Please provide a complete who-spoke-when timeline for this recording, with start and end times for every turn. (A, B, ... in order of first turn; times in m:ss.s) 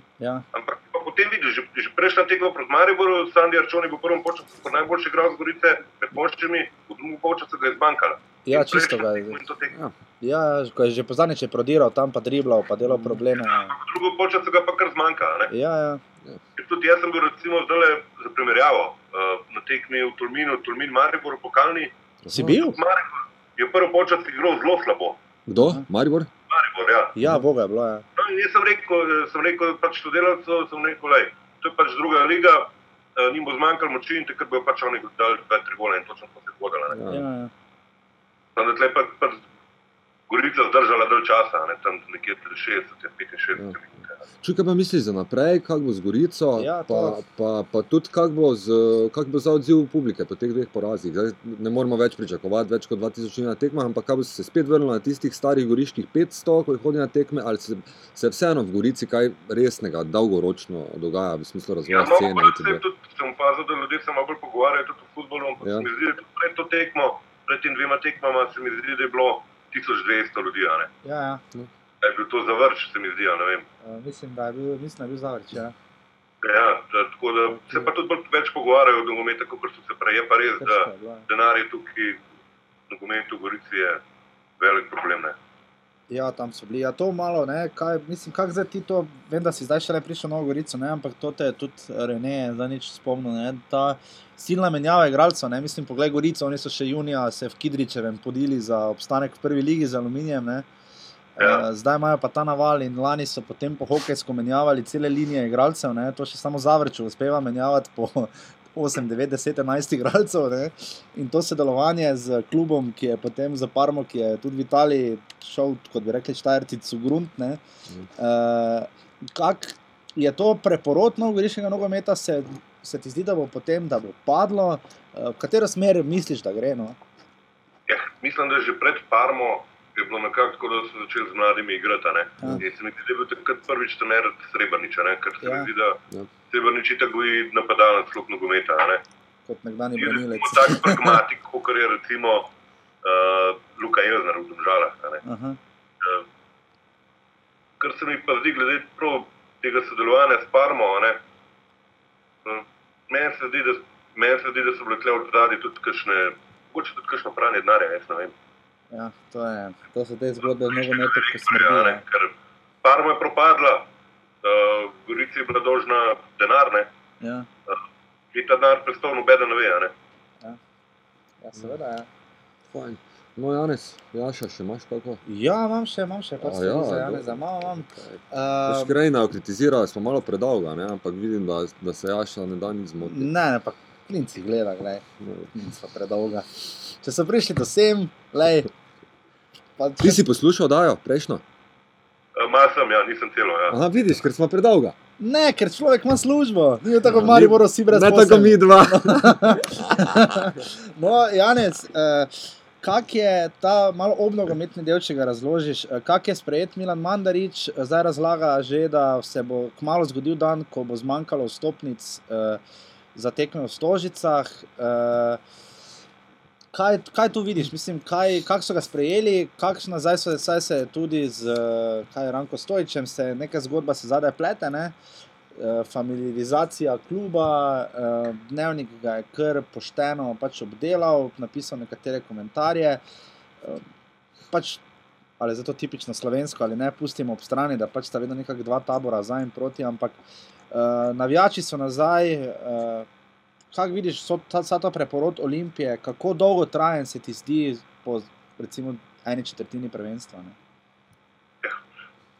0:00.5-0:09.8 A
0:08.4-0:09.4 B
0:10.2-0:13.7 B
0:13.4-0:15.5 A
0:15.5-0:16.0 B
0:16.6-0:21.9 A
0:22.2-0:22.6 C
0:22.3-0:22.8 B
0:22.5-0:25.2 A
0:25.5-0:26.3 C
0:25.6-0:25.8 B
0:26.5-0:27.2 A
0:27.2-0:28.0 B
0:28.2-0:37.0 A
0:36.9-0:37.2 C
0:37.1-0:37.5 B
0:38.6-0:39.4 A
0:40.3-0:44.2 A
0:44.4-1:02.8 C
0:46.6-0:47.2 B
1:01.9-1:10.9 A
1:05.6-1:05.9 C
1:11.0-1:11.4 B
1:12.0-1:13.7 A
1:13.8-1:15.8 B
1:16.4-1:22.2 A
1:17.5-1:17.9 B
1:20.6-1:21.3 B
1:22.9-1:24.0 A
1:24.6-1:25.4 A
1:26.1-1:40.7 B
1:41.4-1:57.6 B
1:41.4-1:41.6 A
1:58.2-2:07.0 B
2:07.9-2:16.0 A
2:15.4-2:15.7 B
2:16.5-2:19.0 A
2:19.5-2:21.2 B
2:20.0-2:22.5 A
2:23.0-2:25.2 A
2:25.2-2:25.6 B
2:27.8-2:31.2 A
2:32.4-2:38.3 A
2:38.9-2:42.0 B
2:40.4-2:43.9 A
2:44.4-2:46.9 A
2:47.2-2:47.5 B
2:48.3-2:49.9 A
2:51.4-2:52.1 B
2:52.7-2:55.2 C
2:55.3-2:59.0 B
2:56.4-3:03.3 C
3:03.0-3:08.7 B
3:05.2-3:05.5 C
3:09.8-3:10.2 B
3:10.0-3:11.4 C
3:12.4-3:13.8 A
3:13.7-3:15.0 C
3:15.2-3:32.6 B
3:17.0-3:20.5 C
3:33.2-3:35.4 B
3:36.7-3:45.0 B
3:45.6-3:53.0 B
3:54.5-3:54.8 B
3:55.4-4:00.2 B
4:00.7-4:03.1 B
4:03.7-4:10.6 B